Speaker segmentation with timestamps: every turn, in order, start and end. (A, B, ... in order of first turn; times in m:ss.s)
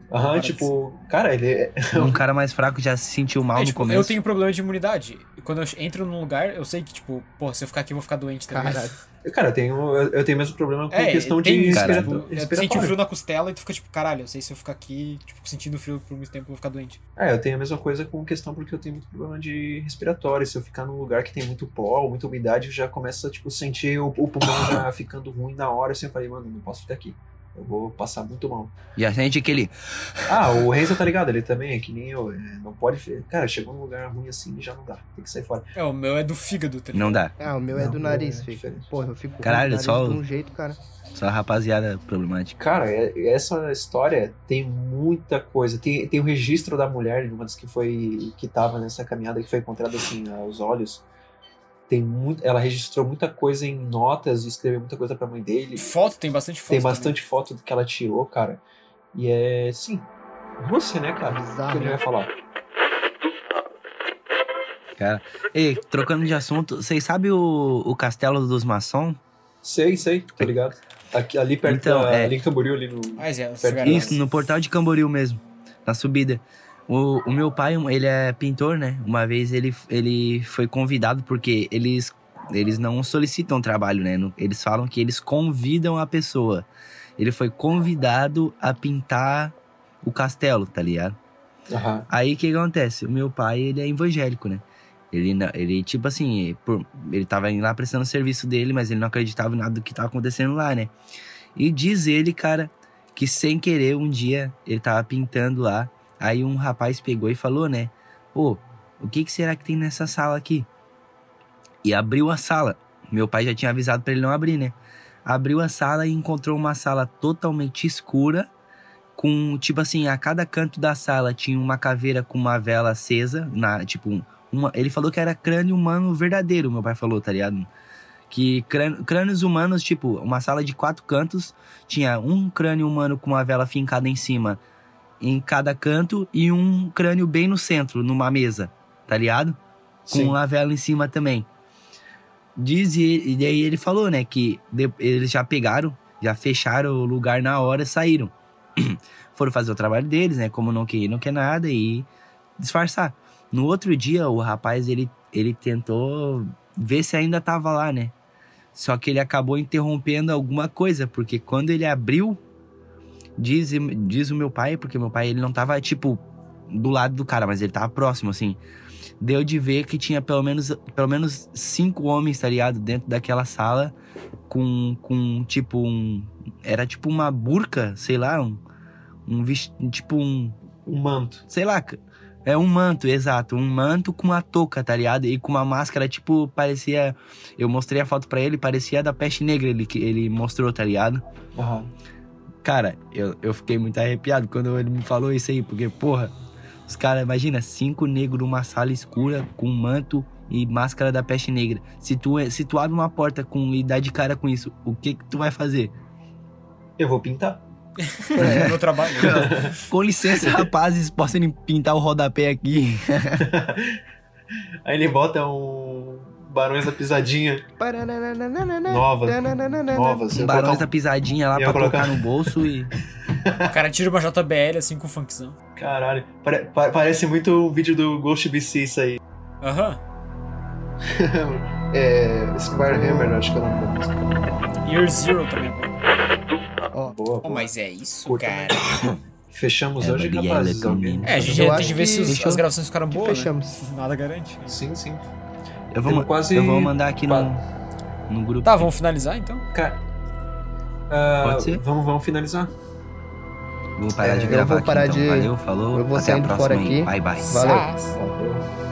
0:00.1-0:02.2 A
0:00.3-0:00.7 B
0:01.9-0:04.2 C
0:03.5-0:09.0 B
0:08.5-0:09.0 D
0:09.2-0:13.0 A
0:10.9-0:17.0 B
0:11.7-0:12.1 C
0:17.2-0:28.7 A
0:29.0-0:30.7 C
0:30.3-0:35.7 A
0:35.8-0:37.2 B
0:36.9-0:37.3 C
0:37.4-0:40.8 D
0:37.7-0:38.9 A
0:39.4-0:40.2 C
0:41.1-0:42.6 C
0:42.6-0:51.0 A
0:51.9-0:55.9 A
0:55.8-0:57.2 B
0:56.7-0:58.6 A
0:59.1-1:00.1 A
1:00.6-1:02.3 A
1:01.2-1:02.0 D
1:05.0-1:09.2 C
1:09.6-1:14.2 A
1:11.6-1:12.3 C
1:13.2-1:14.2 B
1:13.8-1:26.6 C
1:27.2-1:31.2 C
1:31.7-1:32.1 A
1:32.1-1:40.9 C
1:41.6-1:50.7 C
1:51.8-1:58.5 C
1:59.2-2:07.7 C
2:08.3-2:14.6 C
2:15.2-2:21.5 C
2:20.1-2:20.4 A
2:22.6-2:38.1 C
2:38.7-2:42.4 C
2:43.4-2:48.6 C
2:49.2-2:53.9 C
2:54.5-2:58.6 C
2:59.2-3:00.6 C
3:00.8-3:01.4 A
3:01.5-3:11.2 C
3:11.6-3:11.9 A
3:12.6-3:16.3 C
3:16.8-3:25.9 C
3:27.0-3:27.6 A
3:28.0-3:29.8 B
3:28.4-3:29.7 A
3:28.4-3:33.5 C
3:30.4-3:30.6 A
3:33.4-3:34.0 A
3:34.8-3:37.6 A
3:37.8-3:40.2 D
3:38.9-3:40.8 A
3:40.3-3:42.9 C
3:41.5-3:42.5 A
3:43.3-3:43.7 A
3:43.7-3:45.6 B
3:45.8-3:49.2 A
3:49.6-3:50.0 B
3:51.1-3:54.5 A
3:52.9-3:53.3 D
3:54.8-3:55.9 B
3:57.0-3:57.7 A
3:57.4-3:59.1 B
3:58.2-4:01.9 A
3:58.9-3:59.2 C
4:00.0-4:01.5 C
4:01.2-4:04.8 B
4:01.4-4:02.4 D
4:02.2-4:02.6 C
4:03.1-4:03.8 D
4:04.6-4:05.2 A
4:05.9-4:07.6 C
4:06.0-4:07.5 A
4:08.3-4:08.9 C
4:08.6-4:09.6 B
4:09.7-4:10.0 A
4:11.1-4:12.7 A
4:11.4-4:11.8 C
4:14.0-4:17.6 C
4:14.2-4:17.9 D
4:17.4-4:18.2 B
4:17.6-4:18.6 A